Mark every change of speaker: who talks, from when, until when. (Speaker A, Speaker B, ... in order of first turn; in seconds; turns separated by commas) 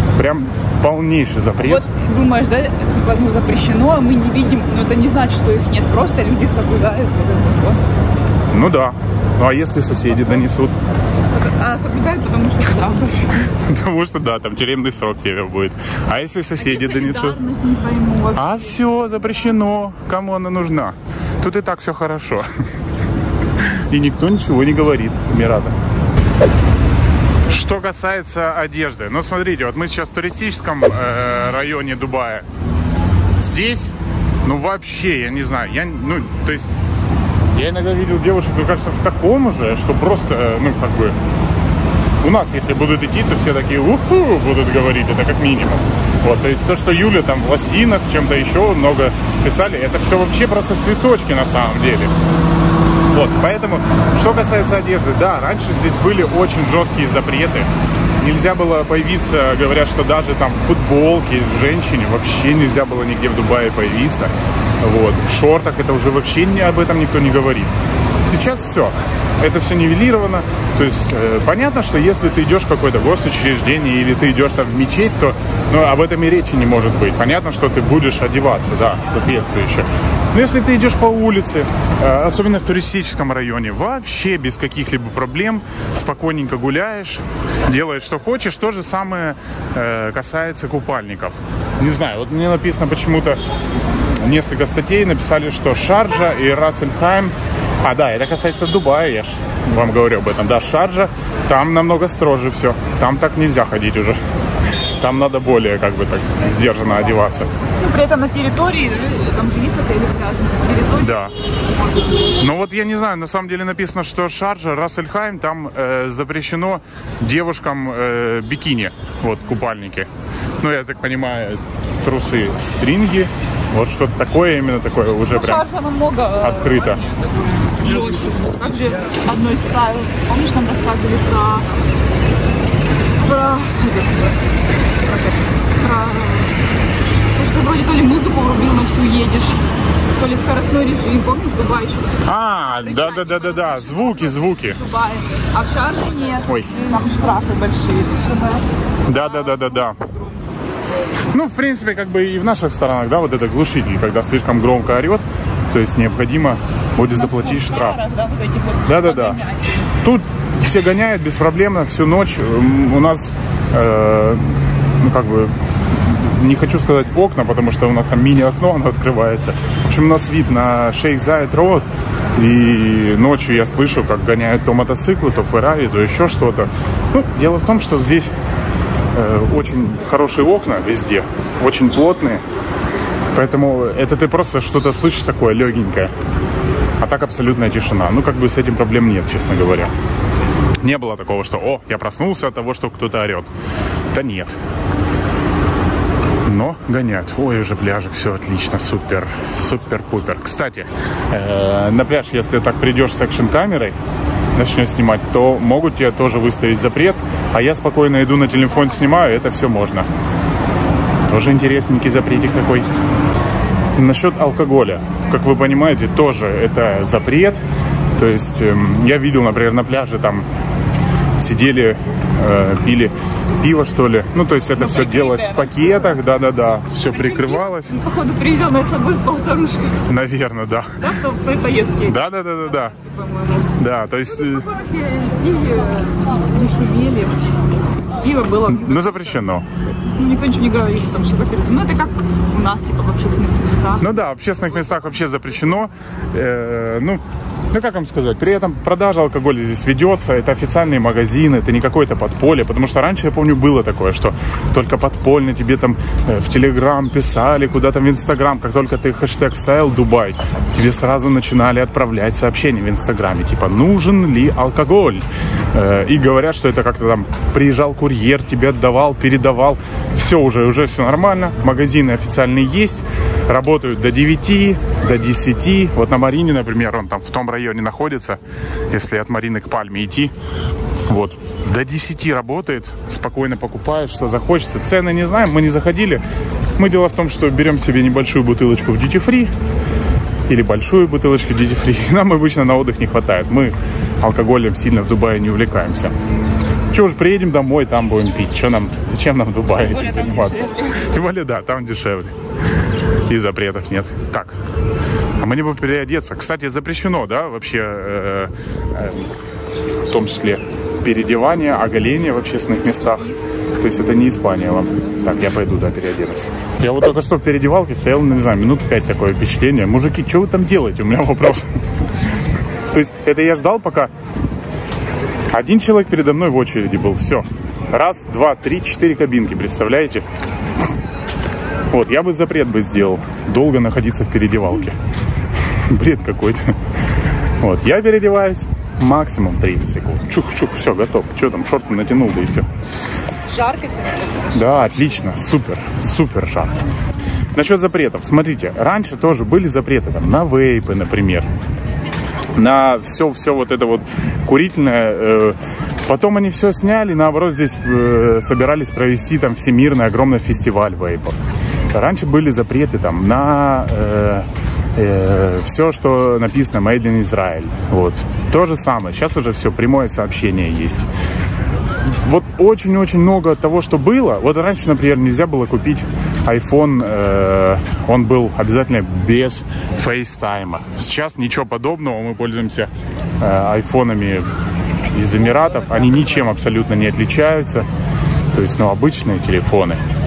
Speaker A: 0.2-1.9, Speaker B: 1.6-7.8, Speaker A: 8.5-10.8, Speaker B: 11.3-13.5, Speaker A: 13.6-17.4, Speaker B: 16.6-18.6, Speaker A: 18.4-22.5, Speaker A: 23.6-25.8, Speaker A: 27.5-32.5, Speaker A: 33.4-33.9, Speaker A: 34.4-36.7, Speaker A: 37.5-41.2, Speaker A: 42.2-52.1, Speaker A: 53.1-57.7, Speaker A: 58.2-67.7, Speaker A: 68.2-93.4, Speaker A: 94.2-104.2, Speaker A: 105.0-107.5, Speaker B: 107.7-111.2, Speaker A: 111.0-111.3, Speaker A: 112.4-120.1, Speaker A: 120.6-125.7, Speaker B: 125.3-127.0, Speaker A: 126.4-127.0, Speaker B: 127.8-131.8, Speaker B: 133.1-134.4, Speaker B: 135.1-136.6, Speaker B: 137.3-139.7, Speaker B: 140.2-150.6, Speaker A: 142.2-144.8, Speaker A: 146.5-146.8, Speaker A: 149.1-150.0, Speaker A: 151.3-158.0, Speaker B: 157.1-159.8, Speaker A: 158.8-159.4, Speaker A: 160.0-171.8, Speaker A: 172.4-178.3, Speaker A: 179.2-182.4, Speaker A: 183.3-186.1, Speaker A: 187.0-189.9, Speaker A: 190.8-193.5, Speaker A: 194.1-194.6, Speaker A: 196.5-203.9, Speaker A: 204.6-210.1, Speaker A: 211.3-212.9, Speaker A: 214.0-217.6, Speaker A: 218.2-220.4, Speaker A: 221.4-227.9, Speaker B: 224.8-226.2, Speaker B: 227.1-230.1, Speaker A: 230.1-231.1, Speaker B: 231.0-233.8, Speaker A: 232.1-232.9, Speaker A: 233.8-234.7, Speaker B: 234.4-237.5, Speaker B: 238.1-239.4, Speaker A: 238.7-239.7, Speaker B: 240.0-244.1, Speaker A: 244.0-278.4, Speaker A: 278.9-280.3, Speaker A: 281.1-286.2, Speaker A: 286.8-289.5, Speaker A: 290.5-296.1, Speaker A: 296.9-302.3, Speaker B: 299.8-301.1, Speaker A: 303.3-304.6, Speaker A: 305.4-309.3, Speaker A: 310.1-321.7, Speaker A: 322.9-324.1, Speaker A: 325.5-330.2, Speaker A: 331.9-335.0, Speaker A: 335.9-336.8, Speaker A: 337.6-342.7, Speaker B: 343.5-345.2, Speaker A: 344.5-346.8, Speaker A: 347.5-351.5, Speaker A: 352.6-361.4, Speaker A: 361.9-371.1, Speaker A: 372.1-384.5, Speaker A: 385.1-387.9, Speaker A: 388.5-390.0